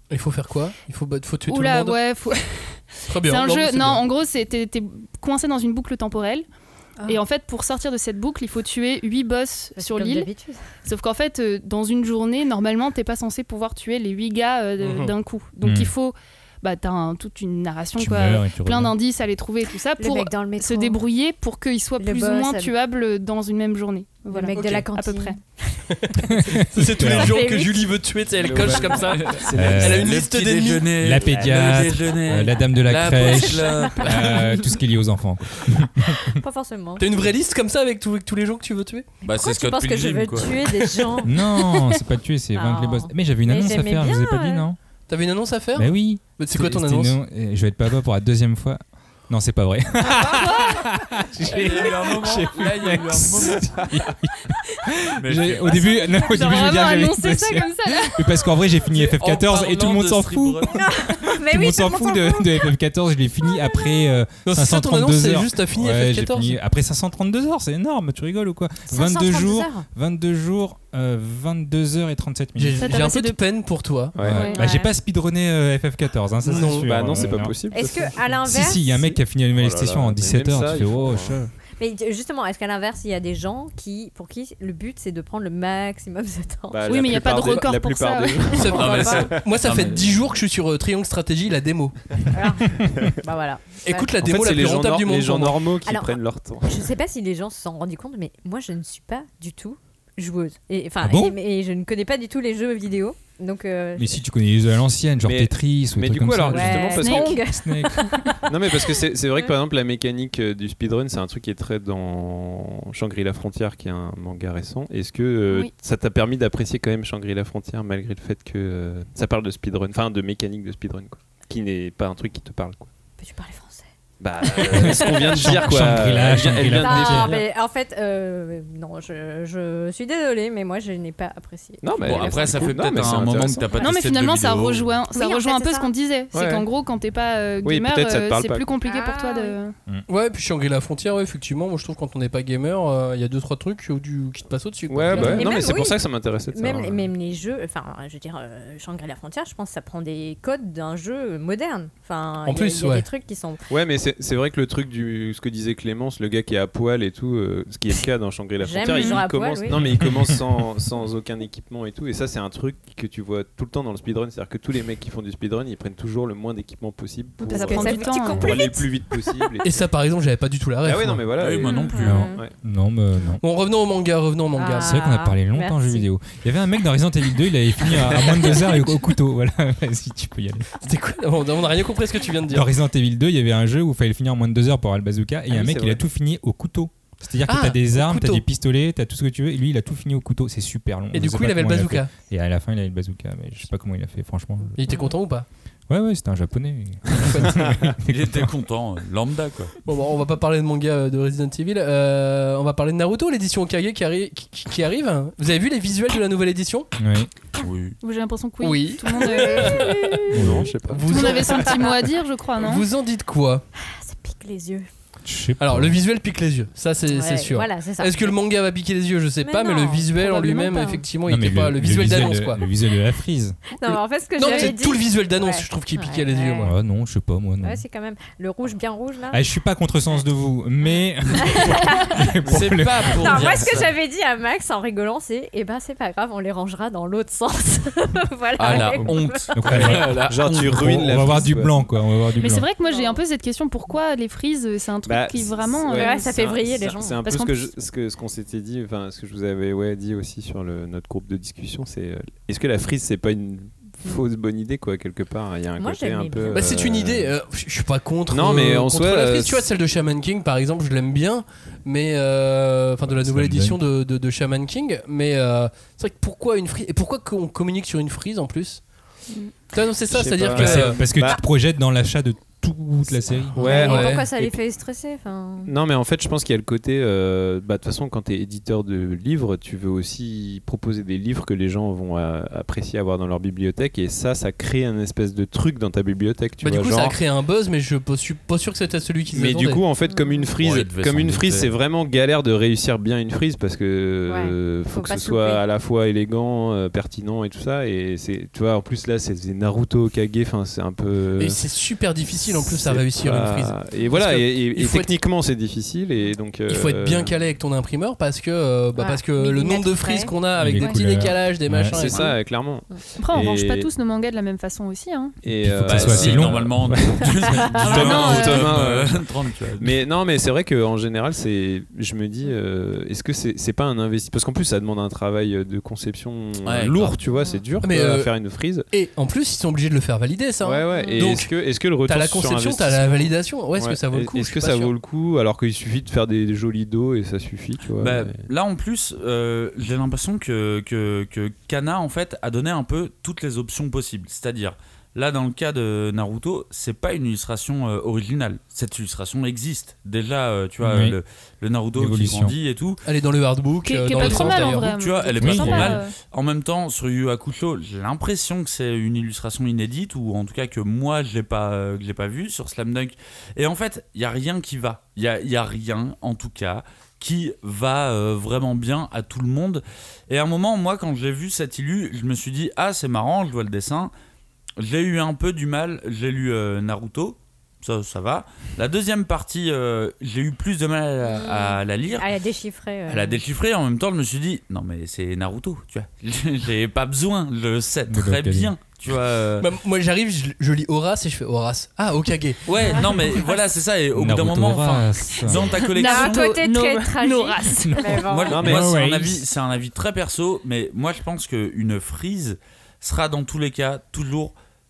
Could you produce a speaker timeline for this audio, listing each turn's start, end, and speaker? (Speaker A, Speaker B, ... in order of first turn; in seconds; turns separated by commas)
Speaker A: 0.1-1.9, Speaker B: 1.5-6.5, Speaker A: 3.1-4.0, Speaker B: 7.0-10.3, Speaker C: 9.8-10.6, Speaker B: 10.8-25.4, Speaker A: 14.8-15.1, Speaker D: 15.6-15.9, Speaker D: 18.0-18.9, Speaker C: 20.0-21.0, Speaker C: 22.0-22.7, Speaker C: 24.3-26.2, Speaker A: 24.5-24.9, Speaker A: 26.1-30.9, Speaker D: 26.4-27.4, Speaker C: 27.0-28.0, Speaker E: 28.4-30.2, Speaker F: 29.0-34.5, Speaker D: 29.5-30.1, Speaker D: 31.0-36.4, Speaker C: 33.2-34.0, Speaker C: 36.3-37.1, Speaker A: 37.0-39.1, Speaker C: 39.2-41.6, Speaker F: 39.2-40.7, Speaker D: 41.2-44.8, Speaker C: 42.5-44.6, Speaker A: 45.1-47.2, Speaker D: 45.7-72.9, Speaker B: 50.2-50.8, Speaker F: 51.5-53.8, Speaker F: 55.2-55.9, Speaker B: 56.0-58.3, Speaker F: 59.1-60.8, Speaker C: 60.7-62.7, Speaker C: 63.4-64.1, Speaker A: 64.4-66.6, Speaker C: 68.9-69.9, Speaker A: 72.6-74.1, Speaker B: 72.8-73.4, Speaker E: 74.1-74.5, Speaker D: 74.2-77.5, Speaker C: 74.3-74.9, Speaker A: 76.4-77.3, Speaker E: 76.5-81.4, Speaker C: 77.7-78.8, Speaker D: 78.4-81.5, Speaker C: 81.8-86.9, Speaker E: 86.7-89.5, Speaker B: 86.8-88.8, Speaker A: 88.5-91.9, Speaker F: 88.7-90.2, Speaker C: 92.3-94.1, Speaker A: 93.8-95.6, Speaker E: 94.2-96.9, Speaker C: 95.8-104.2, Speaker D: 101.0-101.3, Speaker D: 104.0-108.1, Speaker E: 105.2-107.3, Speaker C: 106.5-109.0, Speaker B: 107.0-107.2, Speaker E: 108.5-122.9, Speaker C: 123.2-123.9, Speaker E: 124.2-127.5, Speaker D: 124.6-127.4, Speaker C: 124.6-125.8, Speaker C: 126.7-132.7, Speaker E: 131.8-133.8, Speaker F: 132.0-134.9, Speaker B: 133.8-139.7, Speaker C: 135.1-135.9, Speaker E: 136.3-136.7, Speaker E: 137.6-138.7, Speaker C: 138.8-139.6, Speaker A: 140.1-145.7, Speaker E: 144.9-147.1, Speaker C: 145.1-146.0, Speaker C: 146.5-153.6, Speaker A: 152.4-153.1, Speaker E: 153.7-169.7, Speaker C: 158.6-159.8, Speaker B: 158.9-159.2, Speaker D: 159.7-160.3, Speaker B: 167.4-168.5, Speaker C: 167.5-169.5, Speaker A: 169.6-171.3, Speaker E: 170.8-172.5, Speaker F: 171.4-172.3, Speaker C: 171.6-172.4, Speaker D: 172.0-173.4, Speaker A: 173.4-175.0, Speaker C: 174.5-176.1, Speaker D: 174.8-180.7, Speaker A: 178.2-178.5, Speaker A: 180.8-182.7, Speaker D: 182.5-194.8, Speaker E: 185.5-186.0, Speaker A: 187.5-188.4, Speaker A: 191.1-192.1, Speaker A: 194.8-195.4, Speaker C: 194.9-195.2, Speaker D: 195.9-198.5, Speaker A: 197.3-197.6, Speaker F: 198.1-199.7, Speaker A: 199.8-206.9, Speaker D: 207.0-207.3, Speaker F: 207.6-208.0, Speaker B: 208.0-210.3, Speaker A: 208.6-210.2, Speaker C: 209.5-210.2, Speaker E: 210.3-211.8, Speaker D: 210.3-210.7, Speaker A: 210.9-211.8, Speaker B: 211.1-212.8, Speaker A: 212.6-213.6, Speaker C: 213.8-214.9, Speaker D: 215.2-216.0, Speaker A: 215.6-222.6, Speaker C: 217.1-218.3, Speaker C: 219.4-221.1, Speaker D: 221.2-223.6, Speaker C: 223.8-226.7, Speaker A: 223.9-226.8, Speaker D: 226.6-227.8, Speaker C: 227.6-229.4, Speaker D: 229.3-233.7, Speaker C: 231.4-232.1, Speaker F: 232.5-233.9, Speaker C: 233.2-239.9, Speaker F: 238.6-241.0, Speaker E: 238.7-239.0, Speaker D: 239.5-242.7, Speaker E: 239.7-241.8, Speaker B: 242.3-246.5, Speaker C: 242.8-243.2, Speaker E: 245.1-257.3, Speaker C: 245.9-247.2, Speaker B: 247.2-247.6, Speaker C: 255.8-256.7, Speaker A: 256.5-268.8, Speaker E: 258.3-259.7, Speaker D: 263.0-263.8, Speaker A: 269.7-271.0, Speaker E: 270.1-271.4, Speaker D: 270.5-273.6, Speaker E: 273.5-274.6, Speaker C: 273.5-275.7, Speaker A: 273.6-274.3, Speaker E: 275.6-287.2, Speaker A: 286.6-289.8, Speaker E: 289.3-301.6, Speaker C: 290.1-290.5, Speaker F: 290.6-291.7, Speaker C: 294.3-295.6, Speaker A: 301.4-305.1, Speaker E: 302.4-307.4, Speaker A: 306.7-312.3, Speaker C: 308.9-310.3, Speaker D: 310.5-312.1, Speaker E: 311.8-313.9, Speaker B: 313.2-315.3, Speaker E: 315.4-328.9, Speaker D: 315.4-318.9, Speaker F: 315.8-320.0, Speaker C: 318.0-318.6, Speaker B: 318.1-318.5, Speaker F: 326.6-327.1, Speaker C: 327.3-327.6, Speaker A: 327.8-328.3, Speaker A: 328.9-334.9, Speaker E: 330.6-338.4, Speaker C: 330.9-331.3, Speaker F: 337.9-353.0, Speaker D: 350.8-351.2, Speaker D: 351.9-352.5, Speaker A: 353.0-354.9, Speaker B: 353.8-356.1, Speaker F: 354.1-374.1, Speaker D: 355.4-355.8, Speaker C: 355.6-355.9, Speaker F: 374.8-382.2, Speaker C: 381.2-383.4, Speaker F: 383.1-389.7, Speaker D: 388.1-388.7, Speaker A: 389.6-392.6, Speaker F: 392.7-396.5, Speaker C: 392.8-393.1, Speaker D: 394.1-395.7, Speaker B: 395.6-398.3, Speaker C: 395.9-398.6, Speaker D: 397.8-399.4, Speaker F: 398.2-404.5, Speaker E: 398.5-399.1